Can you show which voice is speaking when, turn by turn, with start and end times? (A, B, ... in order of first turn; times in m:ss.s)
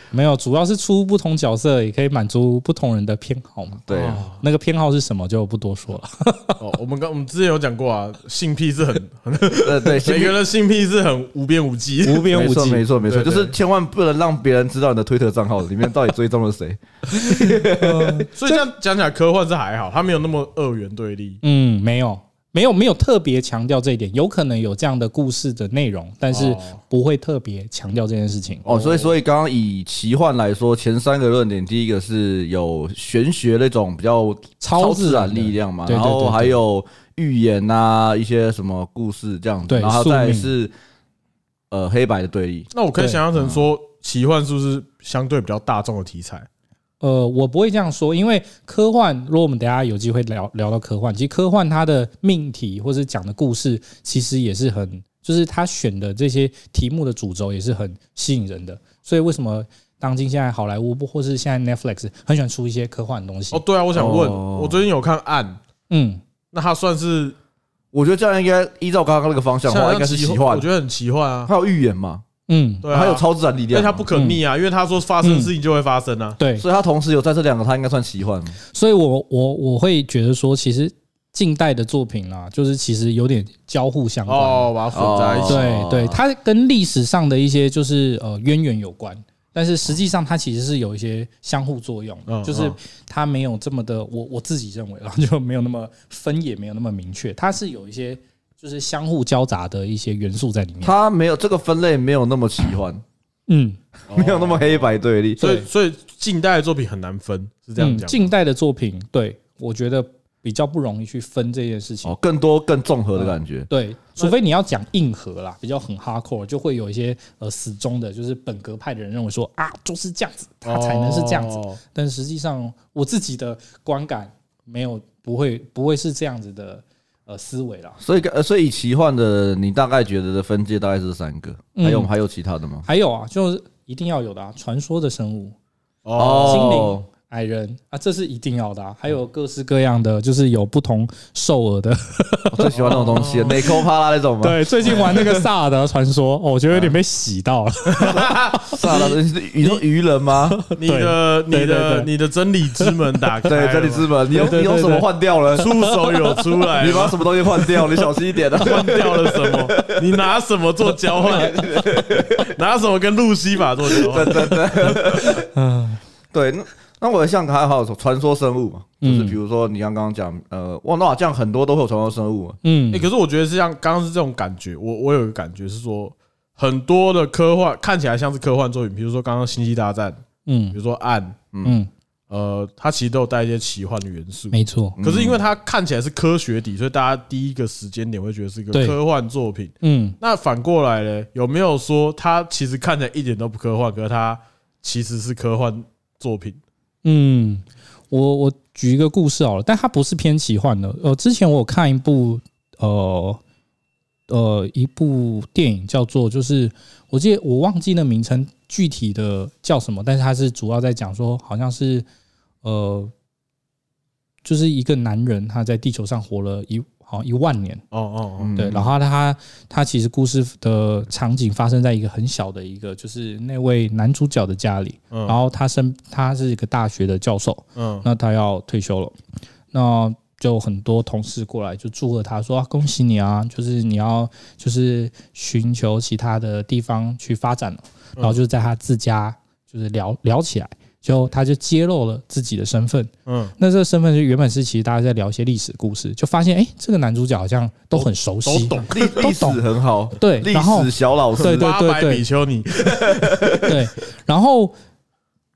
0:00.1-0:06.6 A
0:03.9-0:04.2 B
0:03.9-0:04.4 C
0:06.6-0:12.3 C
0:09.6-0:10.4 B
0:12.0-0:12.8 A
0:12.3-0:18.2 B
0:13.0-0:13.5 C
0:17.3-0:18.6 A
0:18.3-0:21.4 C
0:21.4-0:28.6 A
0:26.3-0:26.8 C
0:28.6-0:29.1 C
0:28.6-0:40.7 B
0:34.6-0:36.6 A
0:39.7-0:40.5 A
0:41.7-0:42.7 B
0:42.7-0:46.5 C
0:43.3-0:43.6 B
0:47.0-1:03.6 A
1:03.5-1:05.6 C
1:03.9-1:04.8 B
1:05.9-1:06.2 A
1:06.5-1:07.3 C
1:07.9-1:10.7 B
1:09.7-1:11.5 C
1:11.5-1:12.2 B
1:12.5-1:12.8 A
1:12.8-1:16.4 C
1:12.9-1:14.0 B
1:14.1-1:14.4 A
1:15.2-1:15.5 A
1:16.4-1:16.6 A
1:16.6-1:18.6 B
1:18.7-1:24.7 A
1:24.3-1:25.6 C
1:24.9-1:26.2 B
1:25.4-1:40.9 A
1:32.3-1:32.8 C
1:40.8-1:43.0 B
1:43.5-1:43.8 A
1:44.1-1:48.3 C
1:44.1-1:45.4 B
1:45.4-1:45.6 A
1:47.8-1:52.1 A
1:52.0-1:53.7 B
1:53.2-2:08.0 A
2:00.6-2:01.8 C
2:08.0-2:12.8 B
2:11.8-2:12.1 A
2:12.8-2:15.5 A
2:16.0-2:16.9 C
2:16.2-2:17.0 B
2:16.4-2:22.7 A
2:22.5-2:25.4 B
2:22.7-2:23.6 C
2:24.4-2:29.1 A
2:24.8-2:25.2 C
2:26.7-2:27.0 B
2:27.9-2:28.7 C
2:28.6-2:30.6 B
2:30.4-2:32.1 A
2:30.7-2:34.1 C
2:33.4-2:35.7 B
2:34.3-2:36.2 A
2:35.5-2:37.2 C
2:36.8-2:40.0 B
2:38.6-2:41.7 C
2:41.2-2:42.5 B
2:42.4-2:44.7 C
2:43.9-2:45.5 B
2:45.2-2:46.0 A
2:46.3-2:52.6 B
2:49.0-2:49.4 A
2:52.6-2:53.1 A
2:52.9-3:01.4 C
3:00.4-3:00.8 A
3:01.6-3:01.9 A
3:02.3-3:16.6 C
3:04.5-3:05.0 A
3:05.0-3:05.4 B
3:09.8-3:10.2 A
3:17.0-3:23.4 A
3:24.3-3:32.0 A
3:32.6-3:33.1 A
3:34.4-3:37.8 A
3:37.9-3:38.5 C
3:38.4-3:38.9 B
3:38.6-3:49.1 A
3:47.8-3:48.0 C
3:49.7-4:09.6 A
4:03.2-4:03.5 C
4:07.9-4:09.1 C
4:08.9-4:11.7 B
4:10.2-4:12.2 A
4:11.4-4:13.6 C
4:13.0-4:13.6 B
4:13.6-4:14.7 A